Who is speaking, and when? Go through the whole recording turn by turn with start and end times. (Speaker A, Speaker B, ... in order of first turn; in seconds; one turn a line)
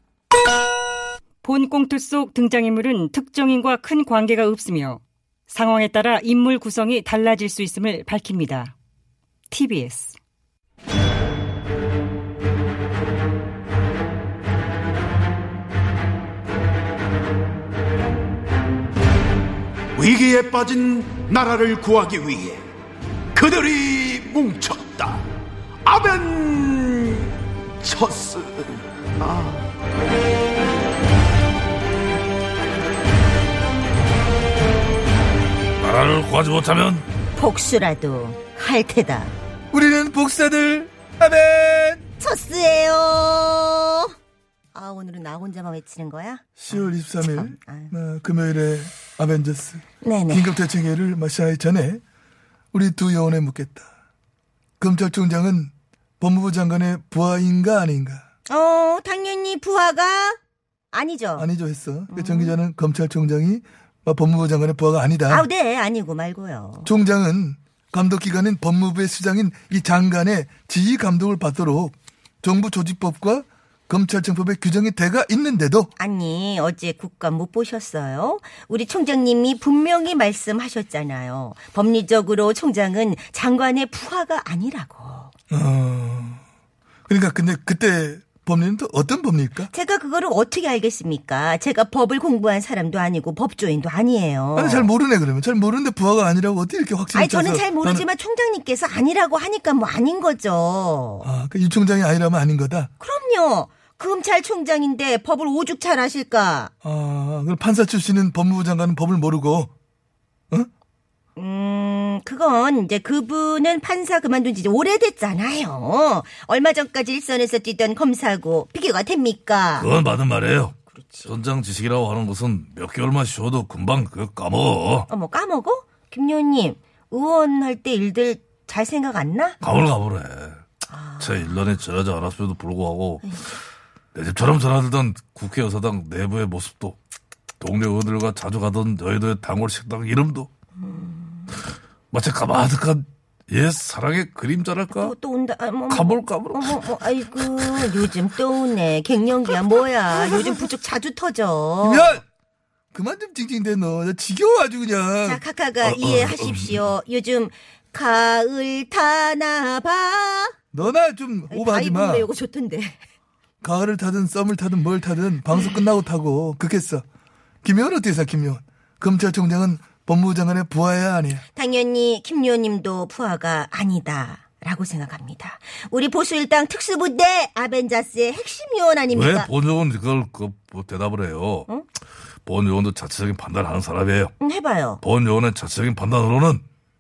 Speaker A: 1.4-8.7
Speaker A: 9.5-10.2
Speaker B: 19.9-22.6
Speaker B: 23.4-25.2
Speaker B: 25.9-29.6
Speaker C: 35.8-37.0
Speaker D: 37.4-39.3
Speaker E: 39.7-42.0
Speaker D: 42.2-44.1
Speaker D: 44.7-47.9
Speaker E: 46.6-52.0
Speaker D: 50.0-50.5
Speaker E: 52.7-53.9
Speaker E: 54.8-58.2
Speaker D: 58.5-60.4
Speaker D: 60.9-61.5
Speaker E: 61.4-65.5
Speaker D: 62.1-62.6
Speaker D: 65.3-66.9
Speaker E: 66.8-75.9
Speaker D: 76.0-85.3
Speaker E: 85.5-86.4
Speaker E: 87.1-89.7
Speaker D: 89.7-94.9
Speaker E: 94.5-98.1
Speaker D: 97.1-101.3
Speaker E: 101.2-102.9
Speaker D: 103.0-106.7
Speaker E: 106.8-109.7
Speaker D: 111.4-119.9
Speaker C: 119.8-125.1
Speaker D: 120.9-121.3
Speaker D: 125.1-129.6
Speaker C: 129.6-130.6
Speaker D: 130.9-131.5
Speaker C: 131.2-133.3
Speaker C: 134.1-137.0
Speaker C: 137.6-140.5
Speaker D: 140.8-141.6
Speaker C: 142.1-145.2
Speaker D: 144.9-152.2
Speaker C: 145.9-146.8
Speaker E: 150.1-150.7
Speaker E: 151.8-152.2
Speaker E: 152.9-155.4
Speaker D: 155.2-160.6
Speaker C: 155.8-156.8
Speaker E: 160.7-162.3
Speaker D: 161.5-163.0
Speaker E: 163.6-167.0
Speaker E: 167.6-171.4
Speaker D: 171.5-179.5
Speaker C: 179.1-181.7
Speaker C: 182.4-184.3
Speaker D: 184.4-185.0
Speaker C: 185.0-186.6